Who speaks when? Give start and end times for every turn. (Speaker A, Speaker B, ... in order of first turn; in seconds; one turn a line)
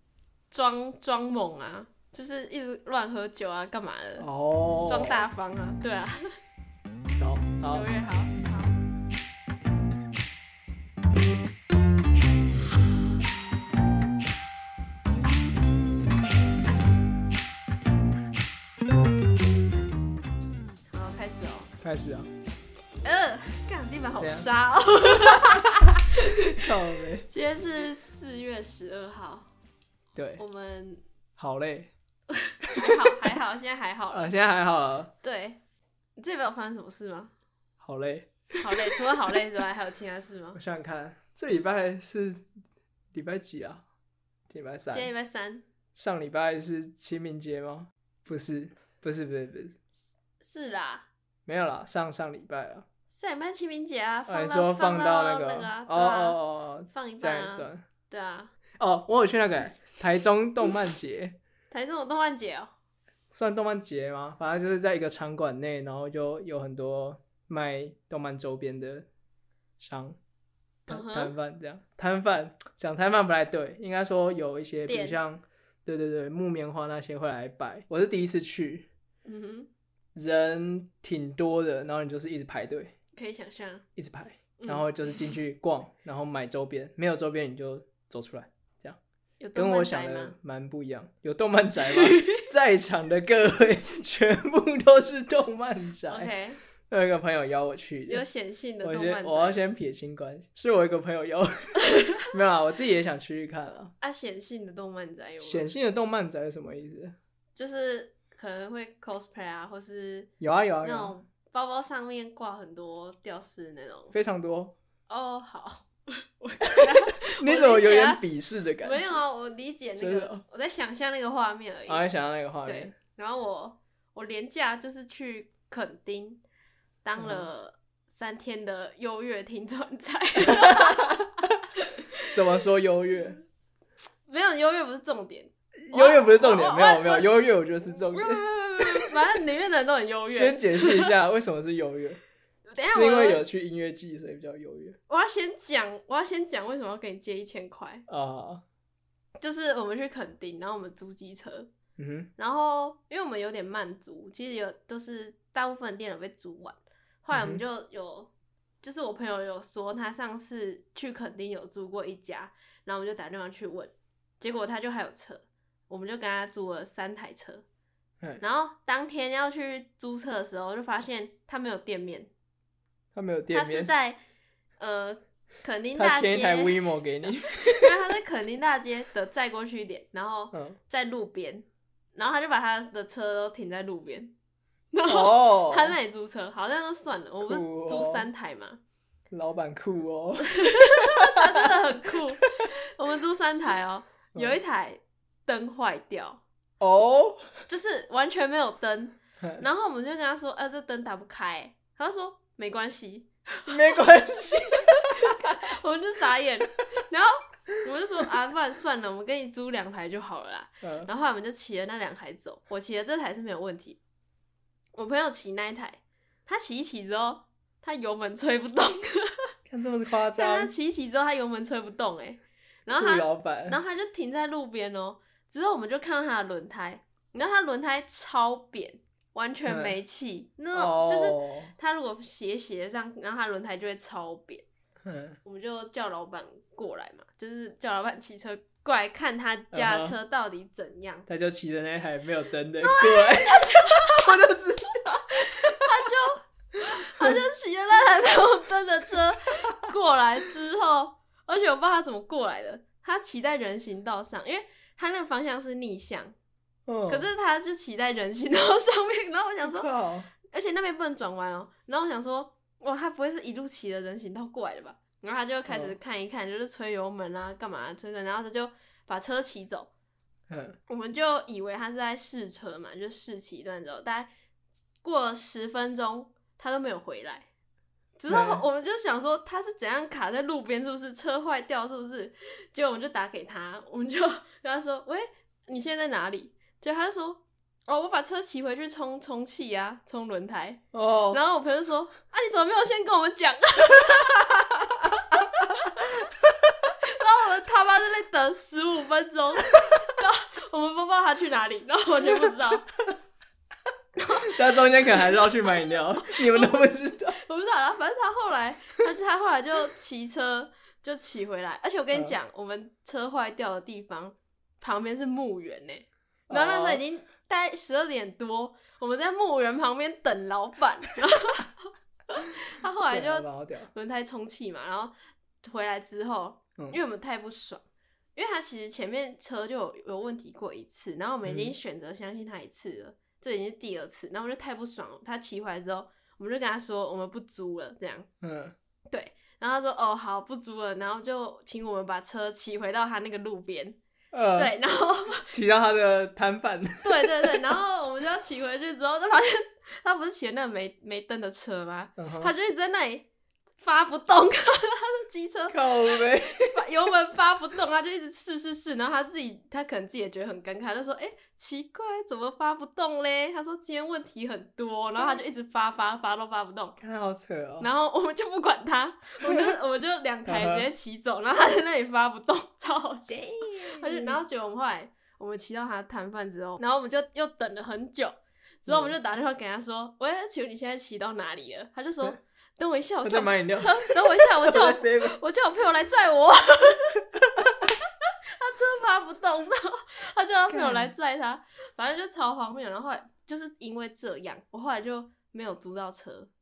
Speaker A: 0.5-4.3
Speaker B: 4.2-5.2
Speaker A: 4.8-6.3
Speaker B: 7.2-7.9
Speaker A: 7.7-8.8
Speaker A: 20.9-21.7
Speaker B: 21.8-22.3
Speaker A: 23.0-26.7
Speaker B: 24.2-24.5
Speaker B: 25.4-25.6
Speaker B: 26.4-27.3
Speaker A: 27.3-29.5
Speaker B: 30.1-30.4
Speaker A: 30.4-31.0
Speaker B: 31.4-31.9
Speaker A: 32.3-34.3
Speaker B: 32.7-33.1
Speaker B: 34.1-35.1
Speaker A: 35.2-35.6
Speaker A: 36.1-37.3
Speaker B: 37.8-39.1
Speaker A: 38.6-40.6
Speaker B: 40.5-42.4
Speaker B: 43.1-43.8
Speaker B: 44.5-45.1
Speaker A: 44.9-45.6
Speaker B: 45.9-49.8
Speaker A: 50.4-51.1
Speaker B: 51.5-52.9
Speaker A: 53.1-58.5
Speaker B: 54.3-57.8
Speaker B: 58.8-61.4
Speaker A: 61.7-62.7
Speaker B: 63.3-69.1
Speaker B: 69.8-70.2
Speaker B: 70.9-78.9
Speaker A: 70.9-71.3
Speaker A: 74.9-75.2
Speaker A: 79.2-79.7
Speaker B: 80.1-82.9
Speaker A: 83.1-83.8
Speaker B: 84.0-89.0
Speaker A: 84.6-84.9
Speaker A: 89.4-90.3
Speaker B: 89.5-96.3
Speaker A: 91.9-92.2
Speaker A: 96.1-96.6
Speaker B: 96.9-98.2
Speaker A: 98.1-99.6
Speaker B: 98.8-103.9
Speaker A: 101.9-102.2
Speaker A: 104.0-105.7
Speaker B: 105.4-107.2
Speaker A: 107.5-110.3
Speaker B: 110.4-111.2
Speaker A: 110.8-114.1
Speaker B: 114.1-114.8
Speaker A: 115.1-118.2
Speaker B: 116.6-119.2
Speaker A: 118.8-122.1
Speaker B: 120.0-120.4
Speaker B: 121.9-123.0
Speaker A: 122.6-126.4
Speaker A: 127.0-131.2
Speaker B: 127.2-127.5
Speaker B: 130.5-131.3
Speaker A: 131.8-132.2
Speaker B: 132.3-133.4
Speaker A: 134.3-137.3
Speaker B: 135.8-139.1
Speaker A: 138.1-141.1
Speaker B: 140.3-142.2
Speaker A: 142.7-143.4
Speaker B: 142.8-145.0
Speaker A: 145.1-148.1
Speaker B: 148.1-148.6
Speaker A: 149.4-151.7
Speaker B: 152.0-152.3
Speaker A: 152.4-158.3
Speaker B: 157.3-157.6
Speaker A: 158.8-167.6
Speaker A: 168.4-172.3
Speaker B: 173.1-173.9
Speaker A: 173.5-174.2
Speaker A: 174.8-176.8
Speaker B: 175.9-178.0
Speaker A: 177.7-184.3
Speaker B: 180.5-180.8
Speaker A: 184.9-188.8
Speaker B: 185.1-185.9
Speaker B: 187.4-188.3
Speaker B: 189.3-192.6
Speaker A: 190.5-196.4
Speaker B: 196.8-197.6
Speaker A: 197.7-204.1
Speaker B: 203.7-205.5
Speaker A: 204.8-214.0
Speaker B: 210.8-211.1
Speaker A: 214.9-219.5
Speaker B: 219.7-220.7
Speaker A: 220.3-234.6
Speaker B: 222.9-223.8
Speaker B: 229.6-229.9
Speaker B: 230.7-231.7
Speaker B: 235.0-235.4
Speaker A: 235.4-241.3
Speaker B: 239.7-240.2
Speaker B: 241.3-245.9
Speaker A: 242.8-244.4
Speaker A: 245.3-256.3
Speaker B: 247.0-247.4
Speaker B: 256.9-257.3
Speaker A: 257.1-269.9
Speaker B: 259.6-260.3
Speaker B: 265.7-265.9
Speaker B: 270.5-270.8
Speaker A: 270.9-274.3
Speaker A: 275.0-277.5
Speaker A: 278.2-294.5
Speaker B: 278.3-278.6
Speaker B: 290.9-291.4
Speaker B: 294.7-295.0
Speaker A: 295.1-296.2
Speaker A: 297.0-302.9
Speaker A: 304.1-327.8
Speaker B: 304.3-307.4
Speaker B: 316.5-317.0
Speaker B: 323.1-323.9
Speaker A: 328.4-338.3
Speaker B: 331.4-331.7
Speaker B: 338.4-338.7
Speaker A: 339.1-344.0
Speaker B: 344.3-344.7
Speaker A: 344.6-345.5
Speaker B: 345.5-347.8
Speaker A: 347.0-353.2
Speaker B: 352.2-352.5
Speaker A: 353.8-367.0
Speaker B: 355.7-356.8
Speaker B: 367.0-367.9
Speaker A: 367.8-387.2
Speaker B: 369.4-369.7
Speaker B: 370.4-370.9
Speaker B: 373.3-374.4
Speaker B: 378.9-379.1
Speaker B: 383.2-385.3
Speaker B: 387.4-387.9
Speaker A: 388.0-396.5
Speaker B: 390.7-391.1